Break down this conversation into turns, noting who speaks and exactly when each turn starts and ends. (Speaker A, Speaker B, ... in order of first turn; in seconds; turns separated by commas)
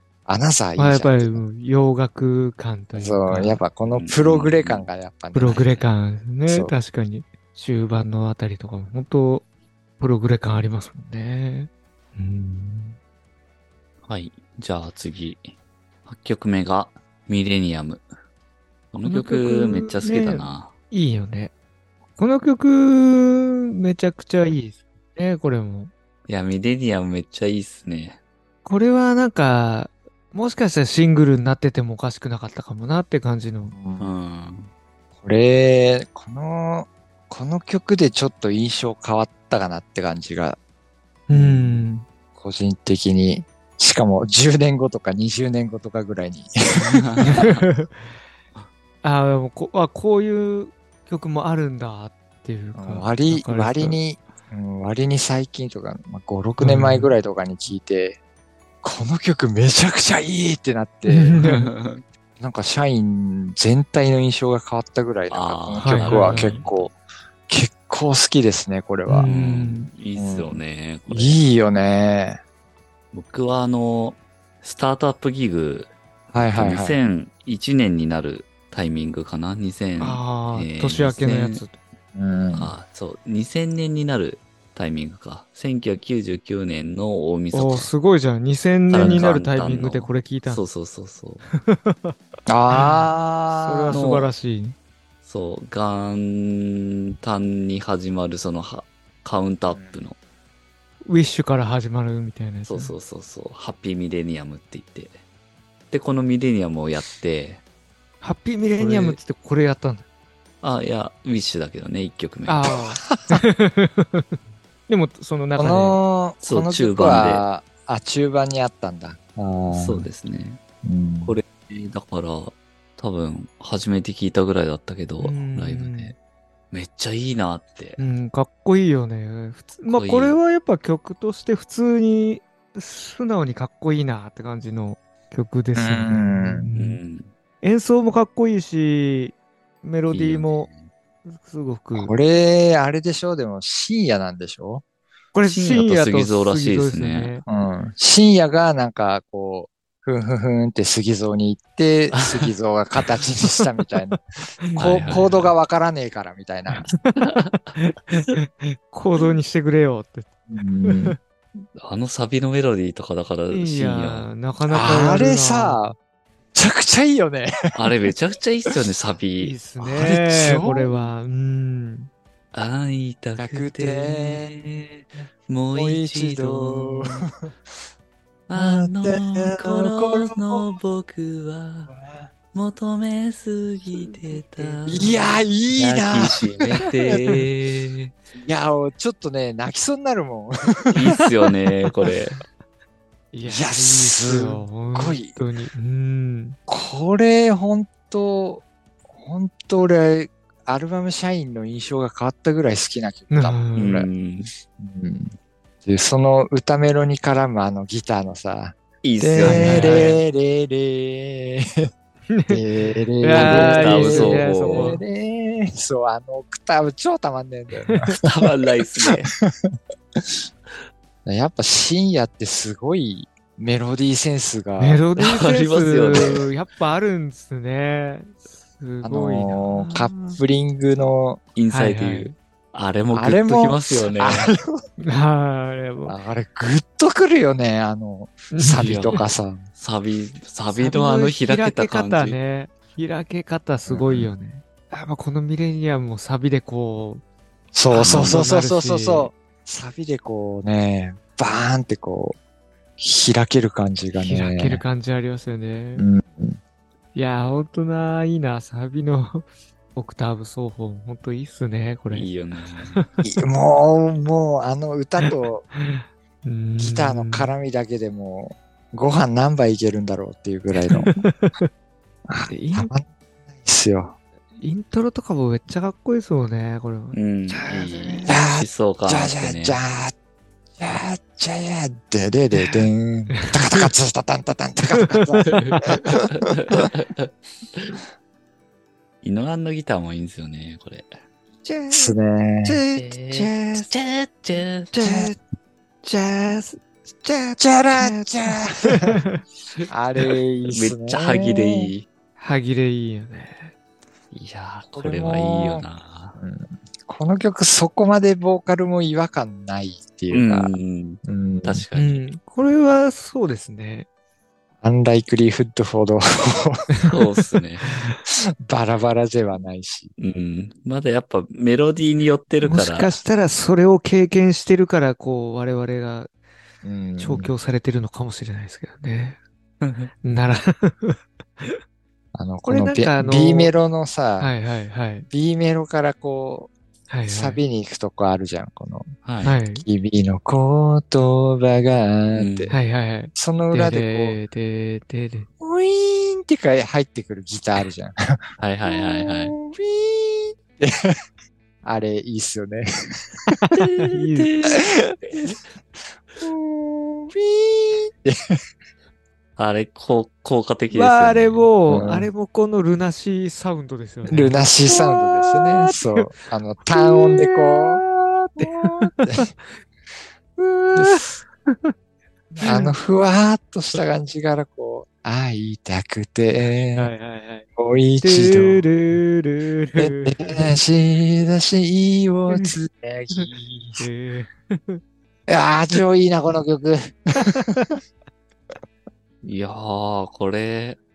Speaker A: 0.3-1.4, Speaker B: 0.8-3.6, Speaker A: 3.0-5.7, Speaker C: 3.9-4.9, Speaker B: 5.3-9.5, Speaker C: 5.5-5.8, Speaker A: 6.5-6.7, Speaker B: 10.0-13.0, Speaker C: 14.0-15.6, Speaker C: 16.1-18.1, Speaker C: 18.9-20.7, Speaker B: 19.1-21.5, Speaker B: 22.2-25.9, Speaker C: 26.3-28.2, Speaker B: 28.6-33.8, Speaker A: 33.7-34.1, Speaker C: 34.0-34.7, Speaker A: 35.2-40.6, Speaker B: 41.3-42.0, Speaker A: 41.3-47.5, Speaker C: 46.8-47.7, Speaker B: 47.3-48.1, Speaker B: 49.0-54.0, Speaker A: 52.8-58.2, Speaker B: 56.6-57.1, Speaker A: 58.8-61.4, Speaker B: 61.1-61.7, Speaker C: 61.4-62.0, Speaker A: 62.4-67.0, Speaker C: 65.3-66.9, Speaker B: 65.8-66.6, Speaker A: 67.5-69.3, Speaker B: 69.1-69.9, Speaker C: 69.3-71.4, Speaker A: 70.1-72.4, Speaker C: 73.1-81.7, Speaker A: 76.3-77.0, Speaker B: 80.0-81.8, Speaker A: 82.2-82.7, Speaker C: 82.5-87.9, Speaker B: 87.5-90.6, Speaker C: 88.9-91.4, Speaker B: 91.6-92.2, Speaker A: 92.5-94.0, Speaker B: 92.7-93.1, Speaker B: 93.6-94.8, Speaker C: 93.9-94.3, Speaker C: 95.2-100.2, Speaker A: 99.7-100.0, Speaker B: 101.0-102.9, Speaker C: 102.7-105.2, Speaker C: 105.9-107.6, Speaker B: 108.2-110.1, Speaker C: 108.8-109.2, Speaker C: 110.6-112.7, Speaker B: 112.5-116.0, Speaker A: 113.1-113.4, Speaker A: 115.6-120.1, Speaker C: 116.4-117.4, Speaker C: 119.7-120.6, Speaker A: 120.8-121.4, Speaker C: 121.2-126.2, Speaker B: 125.2-126.1, Speaker C: 126.7-128.0, Speaker B: 128.0-137.0, Speaker C: 129.9-130.4, Speaker A: 135.8-136.7, Speaker C: 136.8-137.3, Speaker B: 137.6-140.7, Speaker C: 140.1-140.9, Speaker B: 141.2-142.1, Speaker A: 141.9-144.8, Speaker B: 145.3-147.4, Speaker C: 145.5-147.4, Speaker A: 147.5-156.9, Speaker C: 152.2-152.5, Speaker B: 154.1-155.3, Speaker C: 154.8-155.5, Speaker B: 156.9-161.2, Speaker C: 157.2-157.7, Speaker A: 160.5-161.2, Speaker C: 161.8-164.3, Speaker B: 163.5-165.8, Speaker A: 164.7-166.0, Speaker A: 166.5-167.5, Speaker C: 167.7-171.1, Speaker B: 169.4-172.1, Speaker A: 170.0-170.8, Speaker C: 172.5-177.3, Speaker A: 173.4-174.5, Speaker A: 175.7-177.4, Speaker C: 178.5-182.0, Speaker A: 178.6-180.8, Speaker A: 181.9-182.3, Speaker C: 182.5-185.2, Speaker B: 184.1-185.4, Speaker A: 184.9-187.4, Speaker C: 185.7-188.2, Speaker A: 188.4-191.2, Speaker C: 190.9-192.4, Speaker B: 193.3-196.6, Speaker A: 193.4-195.4, Speaker A: 196.7-204.1, Speaker B: 203.3-203.9, Speaker C: 203.8-204.5, Speaker A: 204.8-211.9, Speaker C: 209.0-210.2, Speaker B: 209.4-210.2, Speaker B: 212.3-215.0, Speaker A: 212.5-218.3, Speaker C: 213.3-215.0, Speaker B: 217.7-218.2, Speaker C: 218.2-219.3, Speaker A: 219.0-220.4, Speaker A: 221.2-225.0, Speaker B: 224.8-230.4, Speaker C: 225.2-226.5, Speaker A: 229.0-231.4, Speaker C: 231.6-234.5, Speaker B: 231.7-232.3, Speaker A: 233.1-234.8, Speaker B: 235.0-236.2, Speaker A: 236.1-239.6, Speaker B: 238.5-239.2, Speaker C: 238.7-239.2, Speaker C: 239.8-242.4, Speaker B: 240.8-247.2, Speaker A: 243.9-244.3, Speaker A: 247.7-252.4, Speaker B: 247.9-249.3, Speaker C: 247.9-248.4, Speaker A: 253.0-254.8, Speaker B: 254.1-256.1, Speaker A: 256.0-256.6, Speaker B: 257.1-262.3, Speaker C: 262.1-263.0, Speaker A: 263.2-265.6, Speaker B: 265.2-267.5, Speaker A: 266.8-271.1, Speaker B: 270.9-271.7, Speaker A: 272.3-274.2, Speaker B: 272.5-272.9, Speaker B: 274.6-278.3, Speaker C: 277.1-279.8, Speaker A: 278.3-280.1, Speaker A: 280.8-285.6, Speaker B: 282.6-283.9, Speaker B: 285.0-286.0, Speaker C: 285.5-285.8, Speaker C: 286.4-288.0, Speaker C: 289.2-291.1, Speaker B: 291.6-293.9, Speaker A: 291.9-292.8, Speaker C: 292.9-295.0, Speaker B: 294.9-295.4, Speaker A: 295.0-295.3, Speaker B: 296.0-299.4, Speaker A: 297.6-299.2, Speaker A: 299.9-301.9, Speaker C: 300.7-302.1, Speaker B: 302.4-303.7, Speaker C: 304.3-306.4, Speaker A: 304.9-305.8, Speaker A: 306.4-310.7, Speaker C: 310.3-312.2, Speaker A: 311.2-311.9, Speaker B: 311.9-314.1, Speaker A: 314.8-316.9, Speaker C: 317.0-317.9, Speaker B: 317.8-318.2, Speaker A: 318.3-320.1, Speaker C: 320.2-323.2, Speaker B: 322.6-326.3, Speaker A: 326.8-327.5, Speaker B: 327.2-329.4, Speaker C: 329.8-330.1, Speaker B: 330.2-331.8, Speaker A: 332.3-334.6, Speaker B: 332.6-333.7, Speaker B: 334.4-335.3, Speaker A: 335.3-336.7, Speaker B: 337.1-337.6, Speaker A: 337.3-339.1, Speaker C: 339.2-339.6, Speaker B: 339.4-339.9, Speaker A: 339.8-342.8, Speaker C: 342.3-342.8, Speaker B: 342.7-345.5, Speaker A: 343.3-344.4, Speaker A: 345.6-351.2, Speaker C: 348.6-349.6, Speaker A: 351.8-353.6, Speaker B: 353.6-354.5, Speaker C: 353.8-355.6, Speaker A: 354.7-355.6, Speaker A: 356.4-358.6, Speaker C: 359.6-361.7, Speaker B: 360.9-366.4, Speaker A: 361.9-362.3, Speaker A: 364.3-369.5, Speaker B: 366.9-369.7, Speaker B: 370.6-371.9, Speaker A: 372.5-377.1, Speaker B: 372.6-372.9, Speaker B: 376.9-377.7, Speaker A: 377.8-378.9, Speaker B: 378.2-380.7, Speaker A: 380.0-384.0, Speaker B: 382.5-382.8, Speaker B: 383.3-385.0, Speaker A: 385.5-387.9, Speaker B: 387.4-387.9, Speaker C: 389.4-391.0